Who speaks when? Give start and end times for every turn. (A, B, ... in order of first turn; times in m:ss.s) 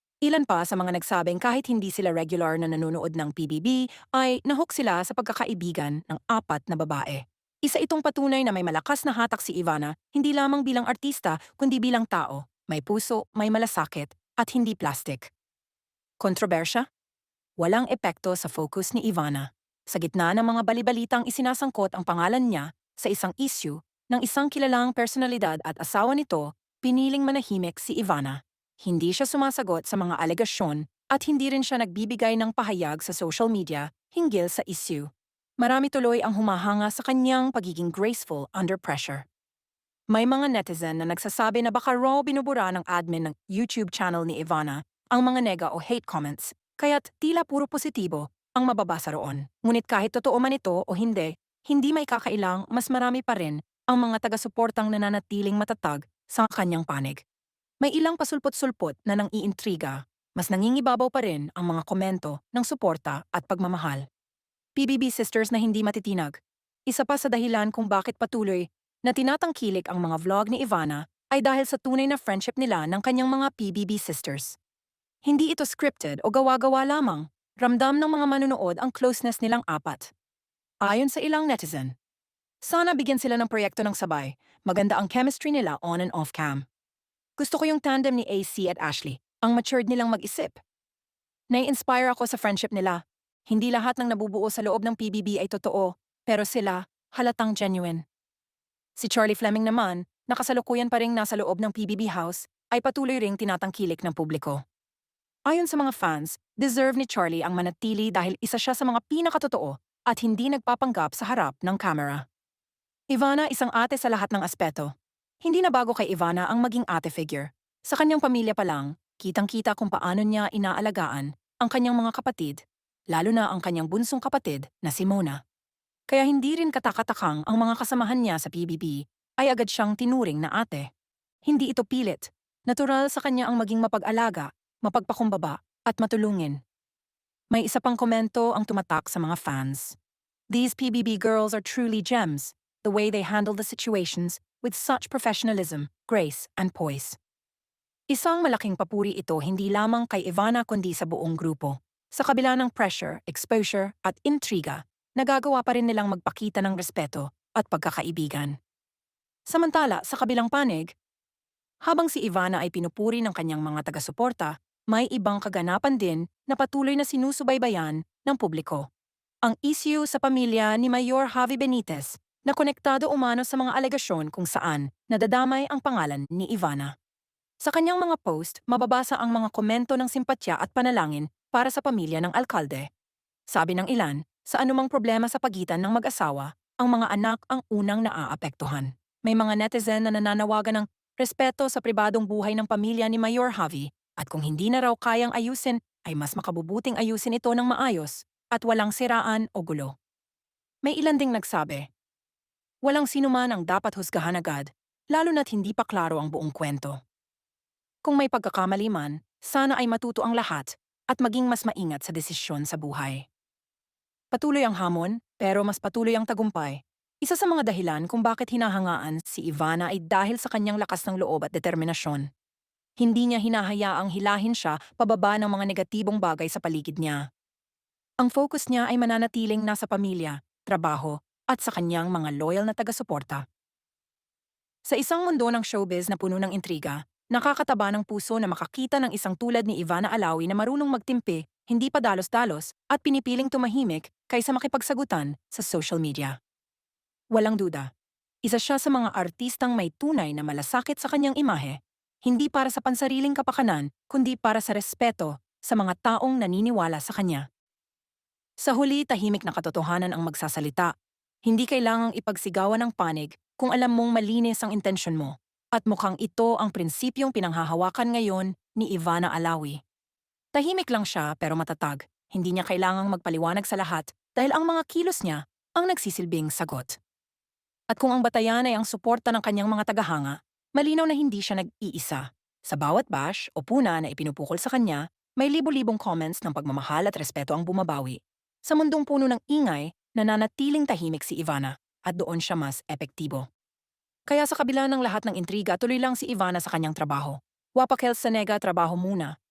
0:00.2-0:15.3 A
0:16.2-0:16.8 A
0:17.6-0:39.2 A
0:40.1-0:57.2 A
0:57.8-1:04.0 A
1:04.8-1:14.6 A
1:15.2-1:20.1 A
1:20.8-1:21.9 A
1:22.6-1:26.6 A
1:27.4-1:30.6 A
1:31.5-1:38.0 A
1:39.0-1:44.6 A
1:45.5-1:52.2 A
1:53.1-1:54.9 A
1:55.4-2:02.6 A
2:03.1-2:05.4 A
2:06.1-2:10.9 A
2:11.5-2:16.6 A
2:17.5-2:20.0 A
2:20.5-2:27.2 A
2:28.1-2:38.6 A
2:39.5-2:40.9 A
2:41.8-2:48.8 A
2:49.4-2:56.9 A
2:57.6-3:02.9 A
3:03.5-3:19.9 A
3:20.8-3:21.9 A
3:22.8-3:27.0 A
3:28.0-3:33.2 A
3:34.3-3:42.3 A
3:43.0-3:47.2 A
3:48.2-3:53.4 A
3:54.8-4:06.4 A
4:07.3-4:07.9 A
4:08.4-4:17.4 A
4:18.6-4:20.9 A
4:21.4-4:29.8 A
4:30.5-4:37.0 A
4:37.9-4:53.4 A
4:54.3-4:59.3 A